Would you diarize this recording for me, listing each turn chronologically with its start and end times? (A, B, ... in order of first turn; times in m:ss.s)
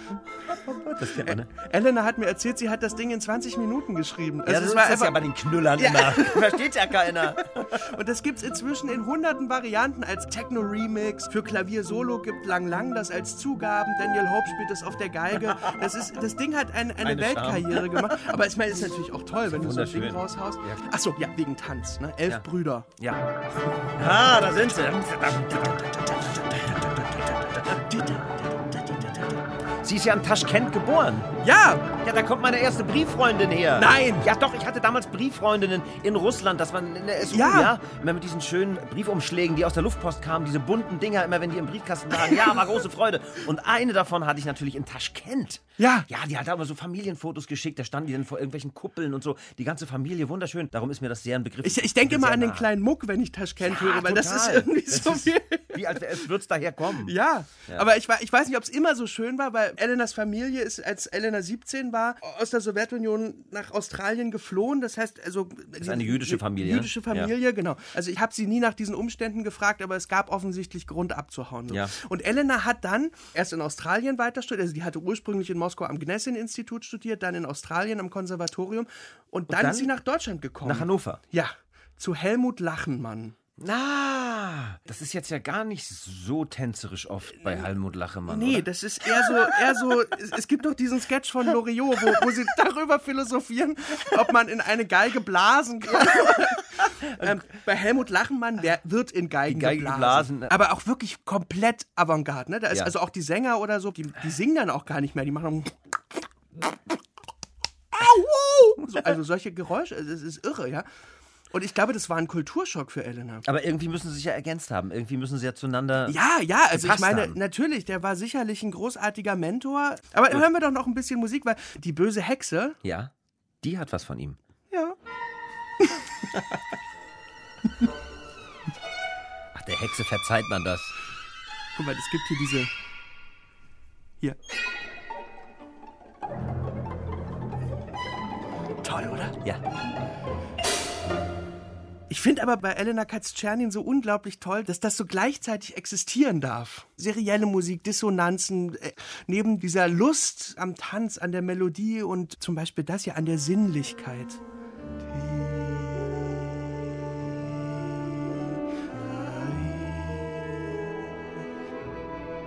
0:00.5-0:01.5 A
0:01.1-0:22.9 B
0:04.5-0:07.8 A
0:17.0-0:18.2 A
0:19.5-0:20.8 A
0:23.0-0:23.2 A
0:24.0-0:27.7 A
0:27.6-0:29.4 B
0:29.8-0:31.3 A
0:31.4-0:31.9 B
0:32.0-0:52.7 A
0:33.7-0:34.3 B
0:37.2-0:37.8 B
0:42.2-0:42.7 B
0:45.8-0:46.1 B
0:51.6-0:56.3 B
0:53.6-0:57.1 A
0:56.9-1:23.4 B
1:05.8-1:07.3 A
1:11.7-1:11.9 A
1:19.5-1:19.9 A
1:20.6-1:21.2 A
1:23.6-1:28.7 A
1:28.3-1:45.8 B
1:36.0-1:37.3 A
1:39.5-1:40.6 A
1:47.9-1:50.9 B
1:51.5-1:53.4 B
1:53.4-1:56.2 A
1:56.1-2:02.8 B
1:56.7-1:57.4 A
2:02.8-2:04.4 A
2:09.5-2:10.9 A
2:11.8-2:12.7 B
2:18.8-2:19.4 B
2:22.1-2:34.4 B
2:35.1-2:40.9 B